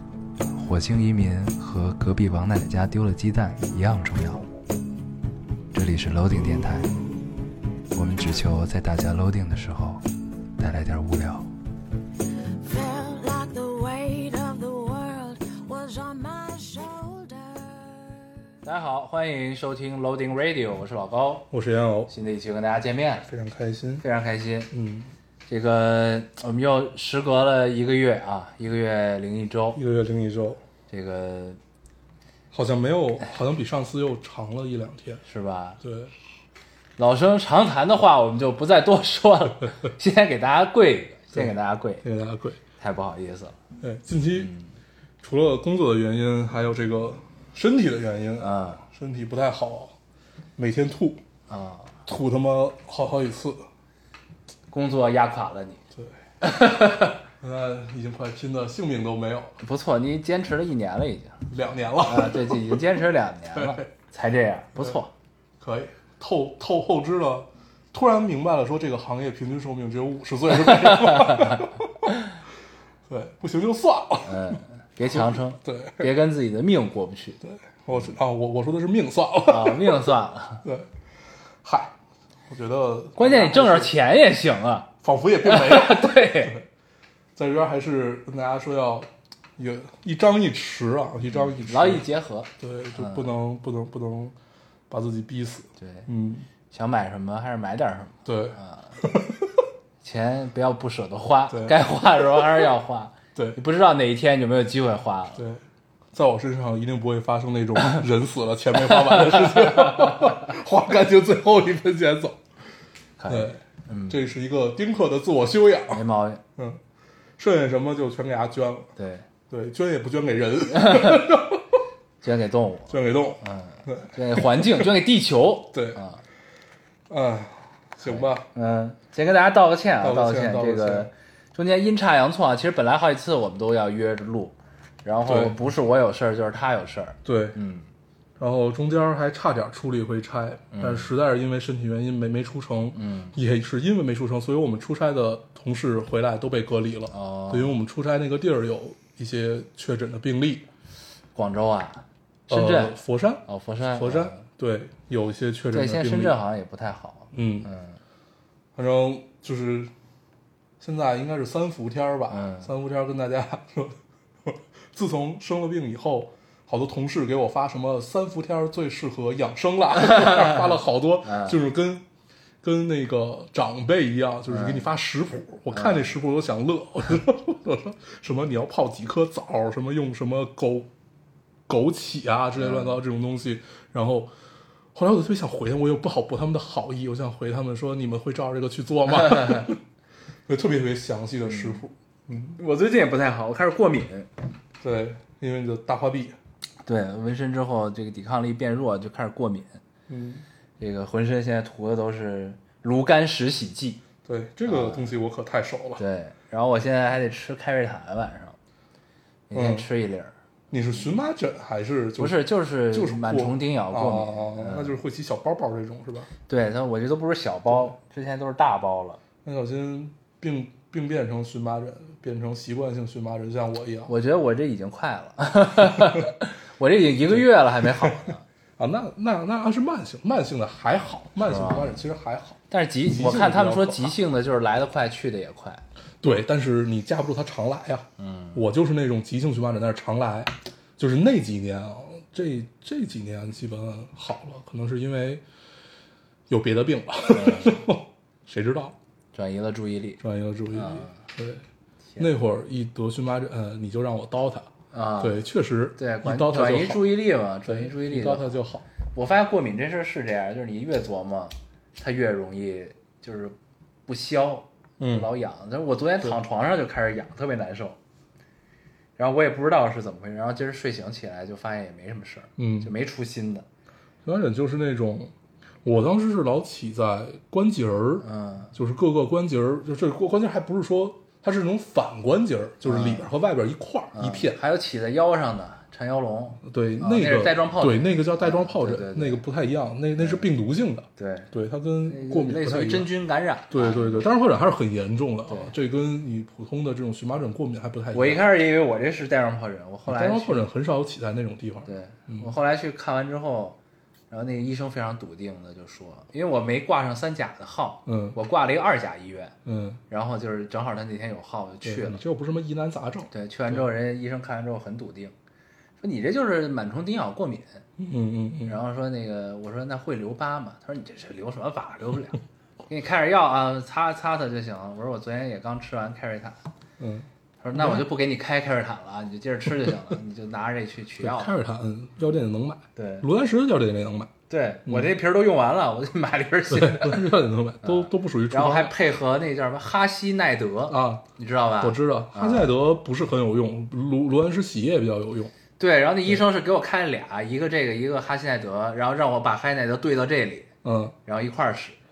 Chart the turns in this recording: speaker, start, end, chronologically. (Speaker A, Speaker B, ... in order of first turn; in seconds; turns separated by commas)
Speaker A: 0.5-4.5, Speaker A: 5.7-6.9, Speaker A: 7.9-10.0, Speaker A: 10.6-11.5, Speaker B: 12.6-18.5, Speaker A: 18.6-21.5, Speaker C: 21.5-22.1, Speaker A: 22.1-23.3, Speaker C: 23.3-24.0, Speaker A: 24.0-24.7, Speaker C: 24.7-25.1, Speaker A: 25.5-29.8, Speaker C: 29.7-30.6, Speaker A: 30.9-31.6, Speaker C: 32.5-35.2, Speaker A: 35.2-35.8, Speaker C: 35.8-36.1, Speaker A: 37.0-42.0, Speaker C: 41.3-42.6, Speaker A: 42.8-43.6, Speaker C: 43.8-44.5, Speaker A: 44.3-44.7, Speaker C: 45.2-50.0, Speaker A: 48.4-48.8, Speaker C: 50.6-51.2, Speaker A: 51.5-52.0, Speaker C: 52.0-53.6, Speaker A: 54.7-55.8, Speaker A: 56.4-57.2, Speaker C: 57.4-59.6, Speaker A: 59.6-61.5, Speaker C: 61.5-62.9, Speaker A: 62.0-65.1, Speaker C: 63.5-63.9, Speaker C: 65.6-72.1, Speaker A: 70.7-71.6, Speaker C: 73.1-76.1, Speaker A: 74.2-77.4, Speaker C: 77.4-80.1, Speaker A: 79.5-80.6, Speaker C: 80.6-80.9, Speaker C: 81.6-82.0, Speaker C: 82.5-83.9, Speaker A: 83.2-84.9, Speaker C: 85.0-86.7, Speaker A: 85.4-86.5, Speaker C: 87.3-92.0, Speaker A: 91.3-93.3, Speaker C: 92.6-94.3, Speaker C: 94.9-96.5, Speaker A: 95.8-96.0, Speaker A: 96.7-99.0, Speaker C: 98.2-99.6, Speaker A: 100.0-105.4, Speaker C: 101.5-102.5, Speaker C: 105.4-112.4, Speaker A: 109.1-110.1, Speaker A: 113.2-114.2, Speaker C: 113.3-116.0, Speaker A: 115.9-116.4, Speaker C: 117.4-118.9, Speaker A: 119.0-119.2, Speaker C: 119.5-121.7, Speaker A: 120.7-121.3, Speaker A: 122.2-126.2, Speaker C: 122.9-124.9, Speaker C: 125.7-126.0, Speaker C: 127.1-128.4, Speaker A: 128.0-137.9, Speaker C: 130.0-131.1, Speaker C: 135.2-135.5, Speaker C: 137.2-137.6, Speaker C: 138.4-150.7, Speaker A: 140.7-141.1, Speaker A: 142.9-143.3, Speaker A: 147.1-147.7, Speaker A: 151.3-154.4, Speaker C: 152.5-156.3, Speaker A: 155.7-158.0, Speaker C: 157.3-157.7, Speaker C: 158.8-159.9, Speaker C: 160.8-172.0, Speaker A: 162.3-162.7, Speaker A: 170.0-170.7, Speaker A: 171.2-171.6, Speaker C: 172.6-180.9, Speaker A: 174.5-174.9, Speaker A: 175.7-176.1, Speaker C: 181.7-184.3, Speaker A: 182.6-183.0, Speaker C: 184.9-189.8, Speaker A: 189.1-189.7, Speaker C: 190.4-192.6, Speaker A: 191.5-191.8, Speaker A: 192.6-194.3, Speaker C: 194.8-196.3, Speaker A: 196.8-199.8, Speaker C: 200.1-200.4, Speaker A: 200.8-204.0, Speaker C: 204.2-206.0, Speaker A: 204.7-205.1, Speaker A: 206.0-208.6, Speaker A: 209.5-210.3, Speaker C: 209.5-209.9, Speaker C: 210.7-212.4, Speaker A: 212.2-214.9, Speaker C: 212.9-216.3, Speaker A: 216.5-219.2, Speaker C: 219.4-224.1, Speaker A: 224.1-228.4, Speaker C: 228.8-234.1, Speaker A: 231.4-231.9, Speaker A: 232.7-235.8, Speaker C: 236.2-245.4, Speaker A: 238.2-238.6, Speaker C: 246.5-248.9, Speaker A: 247.3-247.8, Speaker A: 249.3-250.2, Speaker C: 250.2-251.6, Speaker A: 250.7-251.2, Speaker C: 252.2-257.1, Speaker A: 254.9-255.4, Speaker A: 256.0-258.6, Speaker C: 257.6-258.8, Speaker A: 259.1-263.6, Speaker A: 264.1-268.0, Speaker C: 265.0-265.3, Speaker A: 269.2-273.6, Speaker C: 272.6-272.9, Speaker C: 274.2-284.6, Speaker A: 278.2-278.7, Speaker A: 282.8-283.3, Speaker A: 284.1-289.4, Speaker C: 286.6-293.1, Speaker A: 290.2-290.4, Speaker A: 291.2-291.5, Speaker A: 292.1-294.3, Speaker C: 293.7-298.4, Speaker A: 295.5-295.7, Speaker A: 298.1-300.6, Speaker C: 300.1-302.5, Speaker A: 301.9-303.8, Speaker A: 304.3-309.5, Speaker C: 308.1-308.4, Speaker C: 309.6-310.0, Speaker A: 310.1-312.2, Speaker C: 311.8-313.9, Speaker A: 313.3-315.3, Speaker A: 316.0-317.8, Speaker C: 318.0-318.8, Speaker A: 318.6-326.6, Speaker C: 327.0-328.1, Speaker A: 327.6-331.6, Speaker C: 331.2-334.3, Speaker A: 332.9-333.2, Speaker A: 334.5-342.7, Speaker C: 336.7-338.9, Speaker C: 340.9-341.2, Speaker C: 341.8-345.5, Speaker A: 345.8-350.7, Speaker C: 350.8-351.1, Speaker A: 351.2-352.0